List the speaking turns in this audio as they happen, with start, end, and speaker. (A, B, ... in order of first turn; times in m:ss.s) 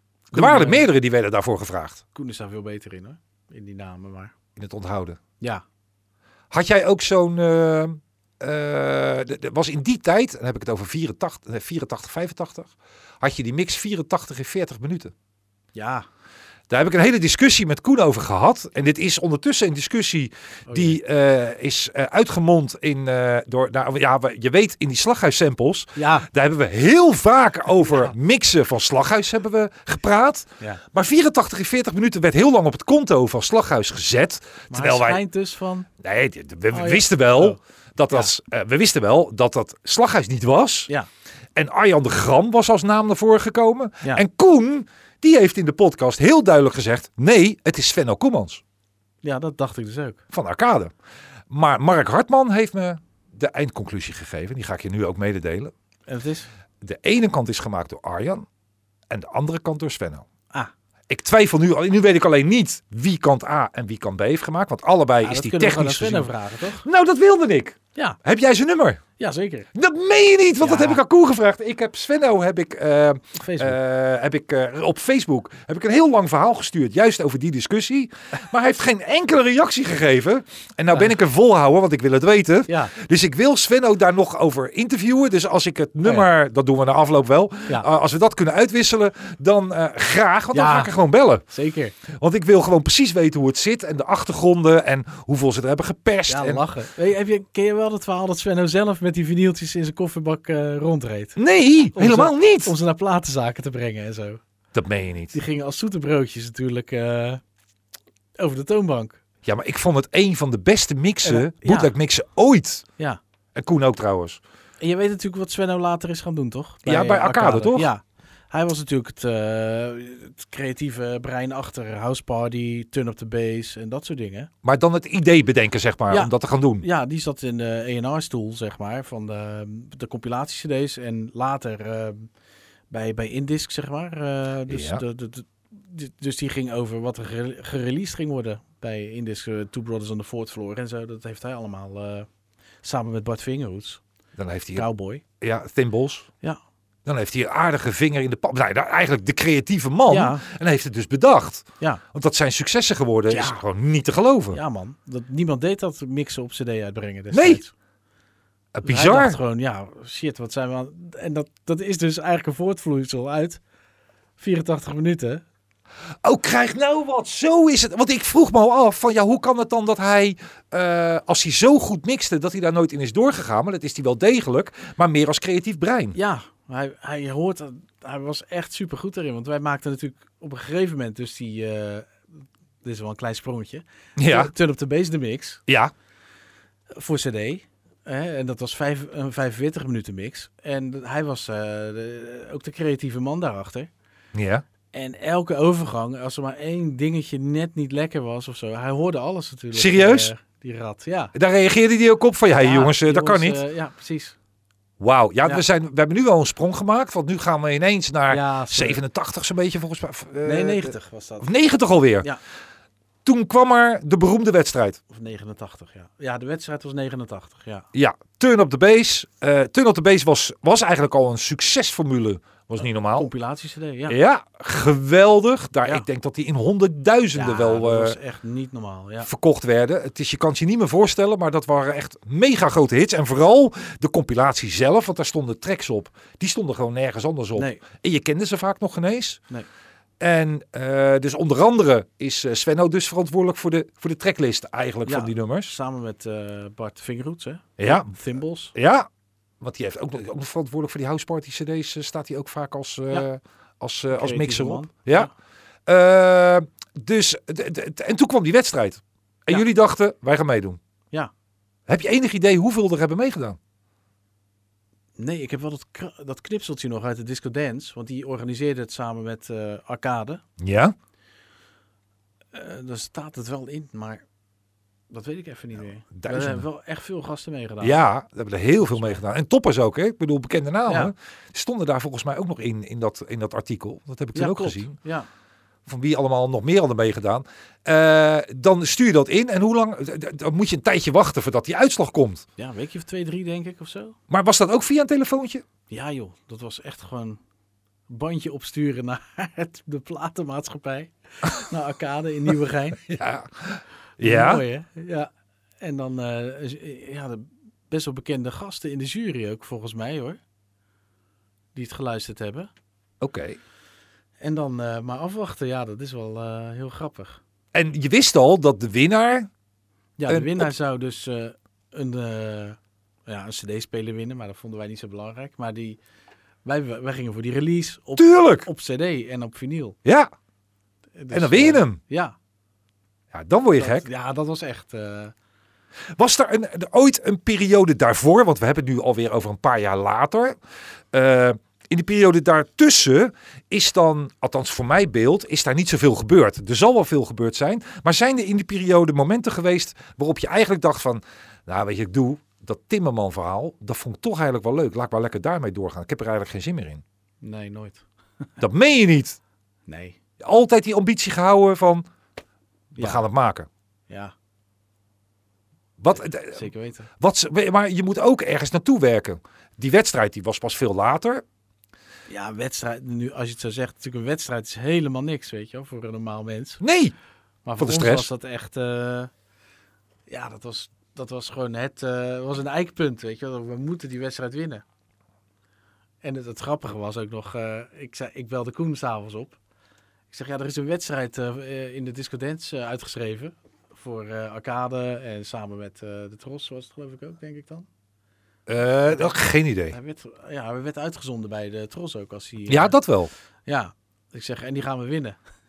0:00.3-0:00.9 A
0:00.3-0:02.0 B
0:02.2-0:04.3 A
0:04.6-0:05.2 B
0:06.5-0:15.1 B
0:15.7-0:16.1 A
0:16.7-0:35.2 B
0:20.7-0:21.0 A
0:26.0-0:26.3 A
0:27.8-0:28.1 A
0:34.7-0:35.9 A
0:36.0-0:40.9 B
0:36.7-0:37.6 A
0:41.6-0:48.6 B
0:49.2-0:50.2 A
0:50.3-0:50.9 B
0:51.5-0:55.7 B
0:56.1-0:56.5 A
0:56.8-0:58.5 B
0:59.1-1:00.3 B
1:01.1-1:09.0 B
1:05.2-1:06.8 A
1:09.2-1:09.7 A
1:09.7-1:31.4 B
1:10.6-1:11.0 A
1:13.4-1:13.8 A
1:22.7-1:22.9 A
1:30.5-1:31.0 A
1:31.5-1:32.0 A
1:32.1-1:36.6 B
1:36.3-1:41.4 A
1:41.4-1:42.7 B
1:41.9-1:44.4 A
1:44.7-1:45.4 B
1:45.3-1:47.4 A
1:48.4-1:49.2 A
1:49.4-1:52.8 B
1:51.2-1:51.9 A
1:53.6-1:54.4 B
1:54.8-2:04.5 A
1:56.8-1:57.9 B
2:04.6-2:06.8 B
2:06.1-2:12.3 A
2:12.9-2:22.3 A
2:14.7-2:15.0 B
2:22.8-2:24.0 A
2:24.4-2:24.9 B
2:24.8-2:25.2 A
2:25.4-2:26.3 B
2:27.1-2:34.6 B
2:30.1-2:30.4 A
2:33.3-2:33.6 A
2:34.5-2:37.7 A
2:37.3-2:37.6 B
2:38.8-2:39.4 B
2:38.8-2:43.6 A
2:44.4-2:45.4 A
2:46.2-2:56.2 B
2:56.2-3:02.2 A
3:02.8-3:05.6 A
3:04.2-3:04.5 B
3:05.7-3:05.9 B
3:06.9-3:13.9 A
3:14.4-3:14.6 B
3:14.9-3:21.4 A
3:19.7-3:20.3 B
3:21.3-3:23.6 B
3:22.6-3:24.4 A
3:25.0-3:32.3 B
3:28.3-3:29.0 A
3:30.4-3:31.5 A
3:33.2-3:35.0 B
3:35.1-3:37.9 A
3:37.9-3:43.3 B
3:43.2-3:44.2 A
3:44.1-3:48.2 B
3:47.3-3:49.3 A
3:49.2-3:59.4 B
3:57.6-3:57.8 A
4:00.2-4:05.8 B
4:05.1-4:08.7 A
4:07.8-4:08.1 B
4:08.7-4:09.1 B
4:09.6-4:15.3 B
4:14.1-4:15.3 A
4:15.9-4:20.8 B
4:21.9-4:23.6 B
4:25.2-4:30.4 A
4:30.6-4:31.0 B
4:32.5-4:34.2 A
4:35.1-4:38.0 A
4:36.1-4:36.7 B
4:37.8-4:44.9 B
4:38.8-4:39.2 A
4:40.9-4:41.1 A
4:44.4-4:45.3 A
4:45.9-4:52.4 B
4:52.6-4:54.2 A
4:54.3-4:55.6 B
4:55.9-4:57.4 A
4:58.1-5:03.0 A
5:03.0-5:04.6 B
5:04.2-5:10.4 A
5:11.8-5:12.7 A
5:13.2-5:13.6 B
5:14.4-5:17.4 A
5:17.7-5:19.5 B
5:20.2-5:26.0 A
5:20.3-5:20.7 B
5:26.6-5:30.0 A
5:28.2-5:28.7 B
5:30.0-5:30.3 B
5:31.2-5:32.3 A
5:31.3-5:32.0 B
5:33.3-5:34.1 B
5:33.8-5:35.3 A
5:36.2-5:40.6 B
5:41.1-5:57.0 B
5:57.4-5:58.0 A
5:58.6-5:59.4 B
5:59.9-6:00.2 A
6:00.4-6:02.1 B
6:02.9-6:03.2 A
6:03.0-6:03.7 B
6:04.1-6:04.3 A
6:06.0-6:06.7 B
6:06.2-6:07.1 A
6:07.2-6:11.4 B
6:12.3-6:16.8 A
6:16.8-6:17.1 B
6:17.6-6:19.3 A
6:17.8-6:18.3 B
6:20.3-6:24.8 A
6:26.2-6:29.6 A
6:30.3-6:37.9 A
6:38.7-6:40.0 B
6:39.9-6:43.0 A
6:42.7-6:43.3 B
6:43.7-6:45.4 A